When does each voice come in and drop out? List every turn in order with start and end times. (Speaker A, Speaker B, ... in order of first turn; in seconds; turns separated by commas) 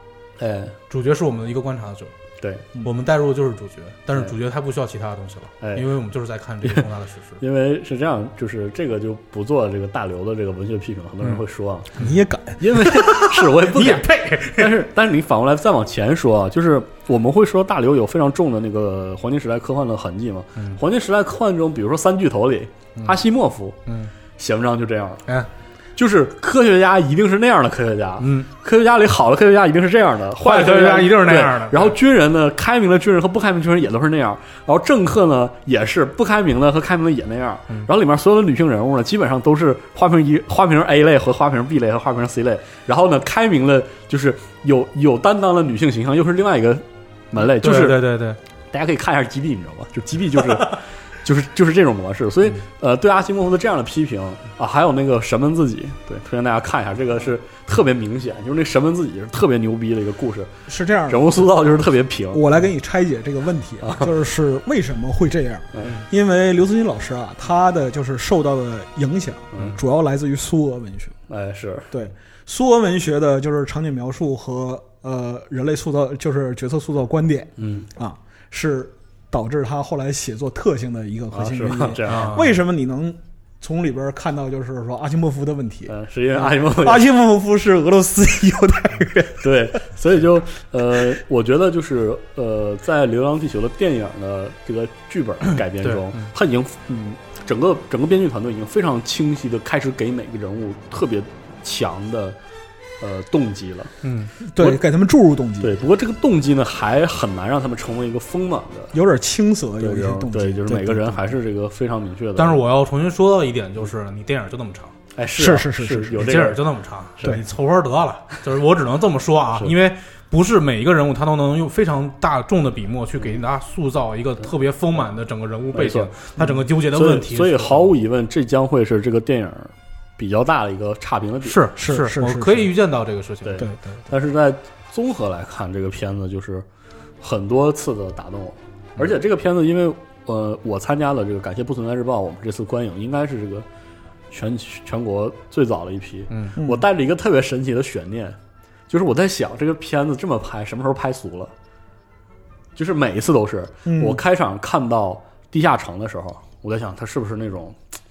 Speaker A: 0.4-0.8, Speaker B: 0.9-2.1, Speaker A: 2.4-2.7, Speaker B: 2.8-7.4, Speaker A: 5.6-5.9, Speaker A: 7.4-12.0, Speaker C: 12.0-12.6, Speaker A: 12.6-23.8, Speaker B: 12.7-14.7, Speaker B: 23.9-24.1, Speaker A: 24.4-25.2, Speaker A: 26.0-48.1, Speaker B: 28.2-28.5, Speaker B: 30.4-32.0, Speaker B: 47.6-48.4, Speaker A: 48.7-60.5, Speaker C: 60.7-61.5, Speaker A: 61.1-62.5, Speaker C: 62.3-71.2, Speaker A: 63.8-64.1, Speaker A: 69.5-69.8, Speaker A: 71.3-71.9, Speaker C: 71.9-89.5, Speaker A: 77.6-77.9, Speaker A: 81.3-82.5, Speaker B: 82.1-82.5, Speaker A: 85.9-87.1, Speaker A: 89.4-102.4, Speaker B: 95.8-96.3, Speaker A: 103.0-103.9, Speaker B: 104.0-104.5, Speaker C: 104.5-105.8, Speaker A: 105.6-109.0, Speaker C: 108.9-111.4, Speaker A: 109.8-112.6, Speaker B: 112.4-114.9, Speaker A: 115.2-116.6, Speaker C: 115.4-116.4, Speaker B: 116.2-127.9, Speaker A: 125.7-126.1, Speaker A: 126.9-131.6, Speaker B: 131.4-133.7, Speaker C: 131.8-132.7, Speaker A: 133.5-136.7, Speaker C: 133.6-134.0, Speaker A: 137.2-143.7, Speaker A: 144.3-148.4, Speaker B: 146.3-146.6, Speaker C: 146.6-146.8, Speaker A: 148.9-151.5, Speaker A: 152.8-157.8, Speaker C: 153.9-154.2